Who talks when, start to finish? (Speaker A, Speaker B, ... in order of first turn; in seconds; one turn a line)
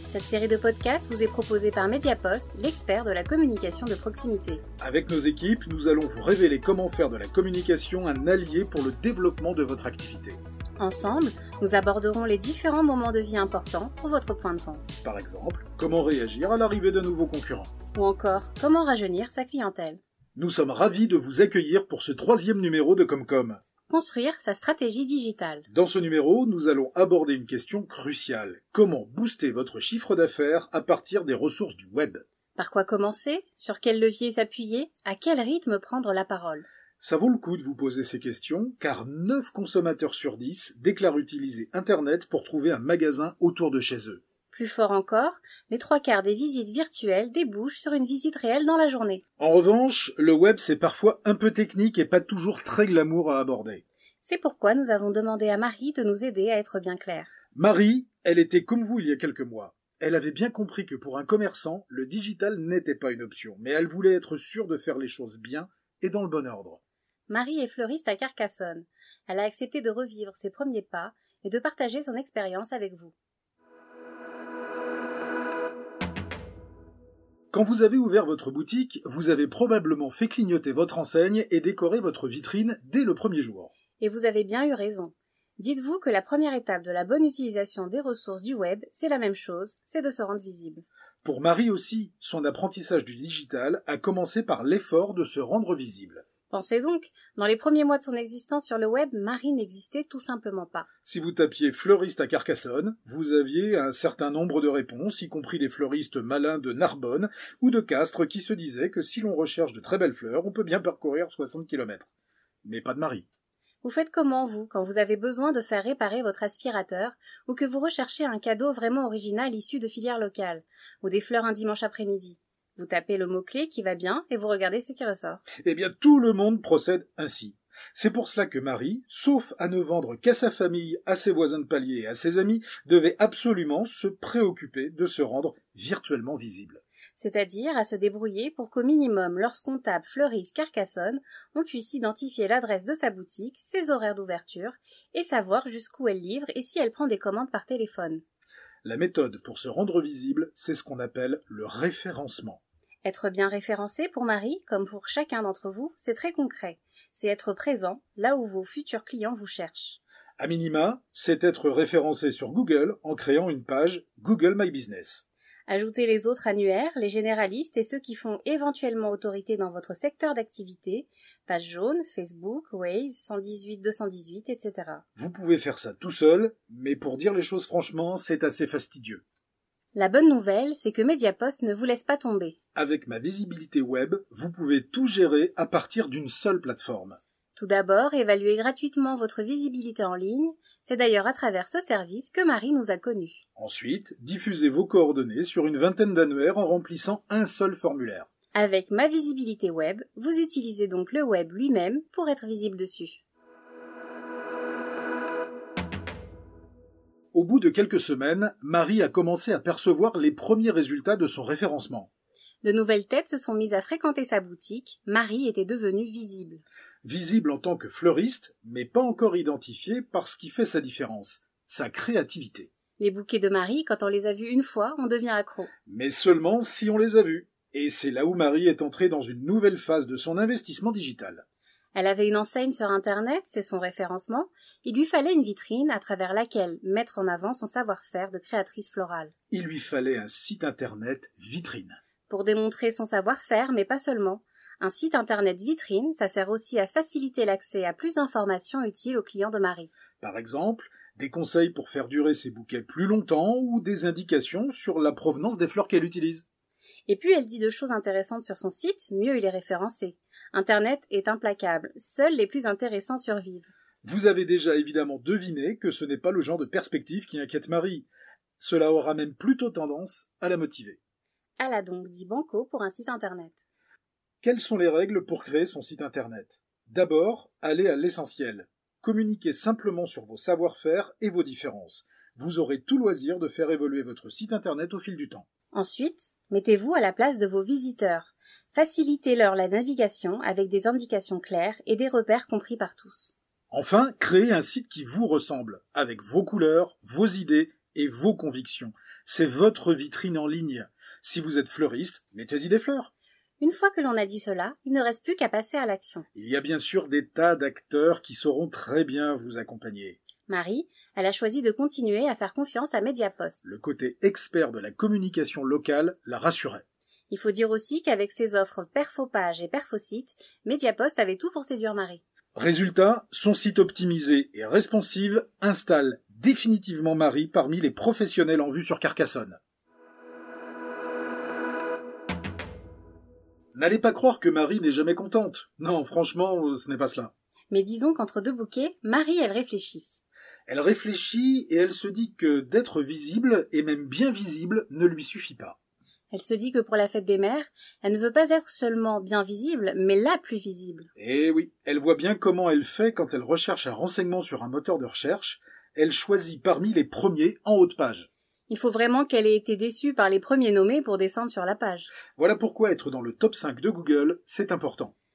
Speaker A: 0.1-4.6
Speaker B: 4.8-10.4
Speaker A: 10.8-15.0
Speaker B: 15.0-17.7
Speaker A: 17.9-20.0
Speaker B: 20.4-23.6
Speaker A: 23.9-25.6
Speaker B: 25.7-32.2
Speaker A: 32.5-36.7
Speaker B: 37.0-44.2
Speaker A: 44.5-49.2
Speaker B: 49.4-53.8
Speaker A: 54.2-57.3
Speaker B: 57.5-66.8
Speaker A: 67.3-73.1
Speaker B: 77.5-83.7
Speaker A: 84.0-90.8
Speaker B: 91.2-96.2
Speaker A: 96.5-100.9
Speaker B: 101.0-112.1
Speaker B: 112.6-113.3
Speaker A: 113.8-125.4
Speaker B: 125.6-136.8
Speaker A: 137.2-148.2
Speaker B: 148.8-152.6
Speaker A: 153.1-160.0
Speaker B: 160.4-165.2
Speaker A: 165.7-175.0
Speaker B: 175.2-179.2
Speaker A: 179.9-182.6
Speaker B: 182.8-187.2
Speaker A: 187.6-193.4
Speaker B: 193.6-198.3
Speaker A: 198.5-203.2
Speaker B: 207.3-212.1
Speaker A: 212.6-216.6
Speaker B: 217.0-222.7
Speaker A: 223.0-225.7
Speaker B: 225.9-231.4
Speaker A: 231.9-239.3
Speaker B: 239.5-242.0
Speaker A: 242.3-249.9
Speaker B: 250.2-256.4
Speaker A: 257.1-263.7
Speaker B: 264.0-268.1
Speaker B: 268.6-271.0
Speaker A: 271.6-273.6
Speaker B: 274.4-285.5
Speaker A: 285.7-293.3
Speaker B: 293.7-303.1
Speaker A: 303.6-306.2
Speaker B: 306.4-310.2
Speaker A: 310.5-313.6
Speaker B: 313.6-316.8
Speaker A: 317.3-322.2
Speaker B: 322.6-329.6
Speaker B: 333.8-337.3
Speaker A: 337.7-340.2
Speaker B: 340.7-345.8
Speaker A: 346.3-351.1
Speaker B: 351.2-358.3
Speaker A: 358.7-362.1
Speaker B: 362.4-365.1